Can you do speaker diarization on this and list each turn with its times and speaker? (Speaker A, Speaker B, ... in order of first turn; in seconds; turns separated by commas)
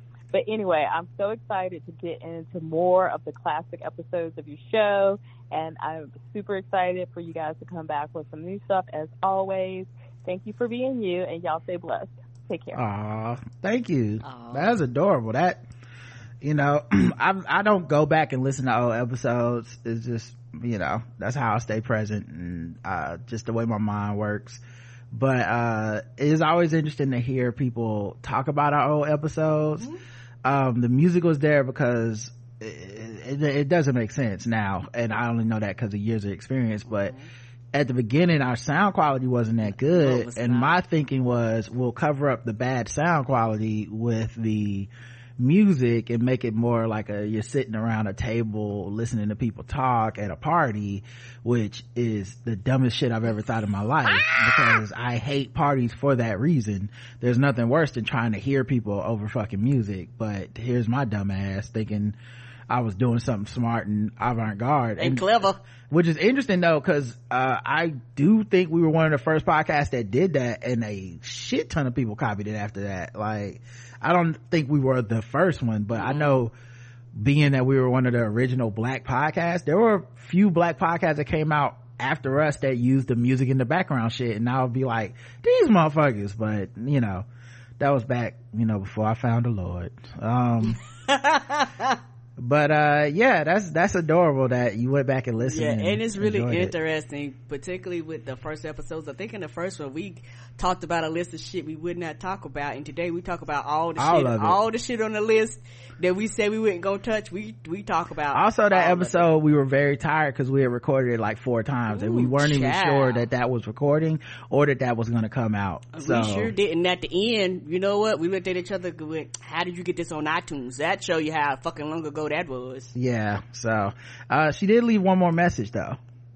Speaker A: 0.3-12.7, Speaker B: 12.7-15.6, Speaker C: 14.2-14.7, Speaker B: 16.4-24.6, Speaker B: 25.1-29.9, Speaker B: 30.4-37.1, Speaker C: 36.9-37.3, Speaker B: 37.7-62.1, Speaker C: 39.7-40.8, Speaker C: 54.2-54.8, Speaker B: 62.7-76.5, Speaker C: 65.0-65.6, Speaker C: 76.0-76.4, Speaker B: 77.1-87.2, Speaker B: 87.8-90.8, Speaker C: 91.1-92.0, Speaker B: 92.4-96.7, Speaker C: 95.4-109.3, Speaker B: 104.0-104.6, Speaker B: 108.3-116.5, Speaker C: 111.9-113.2, Speaker C: 115.9-122.9, Speaker B: 122.9-126.0